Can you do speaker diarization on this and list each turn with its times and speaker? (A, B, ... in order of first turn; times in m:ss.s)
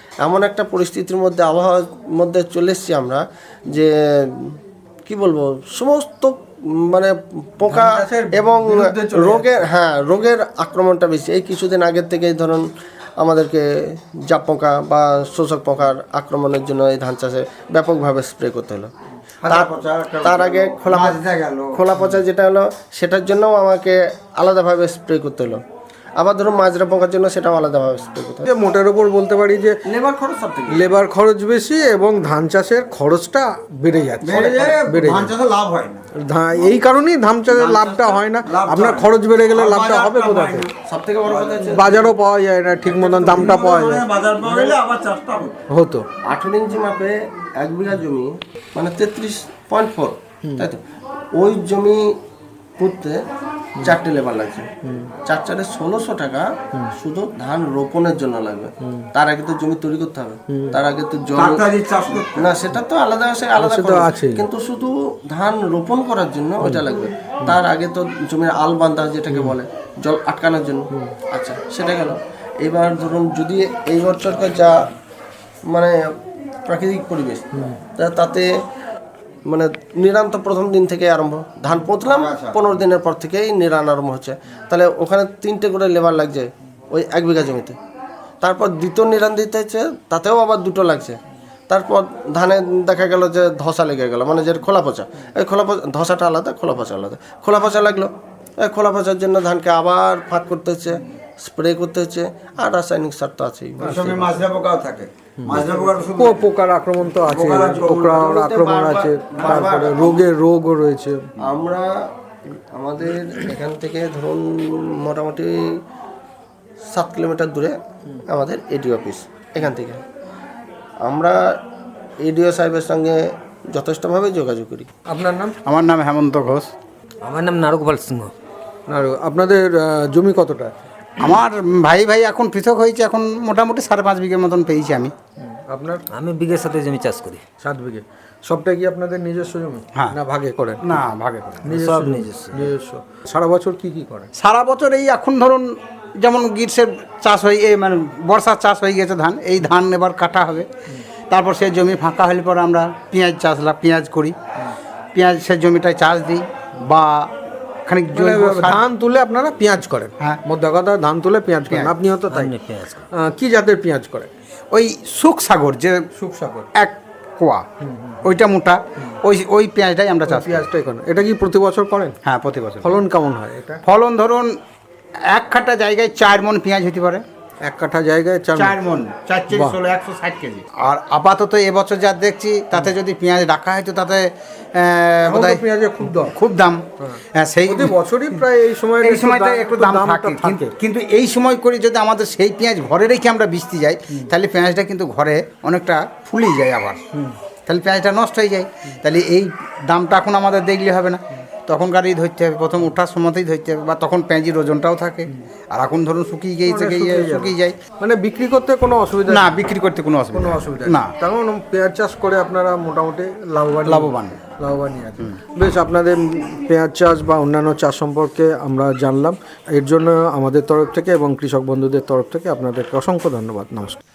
0:00.2-0:12.7 A
0:07.6-0:09.6 B
0:13.2-0:18.9 A
0:19.4-0:21.8 C
0:19.5-0:21.2 A
0:21.7-0:25.6 A
0:26.2-0:28.5 A
0:28.5-0:29.8 B
0:29.9-0:30.9 A
0:30.7-0:35.3 B
0:34.2-0:36.1 C
0:36.2-0:40.7 B
0:37.7-0:38.2 A
0:38.4-0:40.7 C
0:40.8-0:42.1 A
0:41.6-0:44.0 B
0:42.8-0:45.6 C
0:43.4-0:43.6 A
0:45.7-0:46.1 B
0:46.3-0:50.8 A
0:51.4-0:52.1 A
0:52.8-0:53.2 A
0:53.8-0:54.7 A
0:54.8-0:55.1 B
0:55.3-1:14.9 A
1:00.5-1:00.8 B
1:01.4-1:02.6 C
1:03.6-1:04.5 B
1:09.3-1:09.6 B
1:15.7-1:16.0 A
1:16.7-1:18.5 A
1:19.5-1:27.8 A
1:22.1-1:22.6 C
1:28.4-1:44.3 A
1:43.8-1:46.5 C
1:45.4-1:51.3 B
1:47.3-1:47.9 C
1:47.3-1:50.2 A
1:51.4-1:55.8 A
1:56.9-2:00.0 A
2:01.0-2:01.6 A
2:02.2-2:04.9 A
2:05.1-2:05.6 B
2:05.6-2:06.7 D
2:07.2-2:08.3 E
2:08.9-2:10.7 B
2:11.2-2:15.1 D
2:15.5-2:16.0 B
2:16.1-2:17.4 E
2:17.6-2:20.8 B
2:20.8-2:21.6 D
2:21.6-2:22.7 E
2:21.7-2:24.3 B
2:24.4-2:30.7 D
2:31.3-2:34.4 D
2:35.2-2:37.3 D
2:37.9-2:38.8 D
2:38.1-2:42.5 B
2:42.3-2:43.1 E
2:43.1-2:44.3 B
2:44.7-2:46.0 D
2:46.2-2:46.7 B
2:46.8-2:47.7 D
2:47.9-2:48.2 B
2:48.2-2:50.7 D
2:50.2-2:52.2 B
2:52.2-2:53.0 D
2:52.8-2:53.8 B
2:53.8-2:54.6 D
2:55.3-2:57.2 D
2:57.6-2:58.8 B
2:58.6-3:08.0 D
2:59.5-2:59.8 B
3:05.3-3:06.4 B
3:07.0-3:10.7 B
3:09.0-3:17.0 D
3:17.7-3:27.8 D
3:26.7-3:29.6 B
3:29.3-3:31.1 D
3:30.3-3:44.0 B
3:33.8-3:34.4 D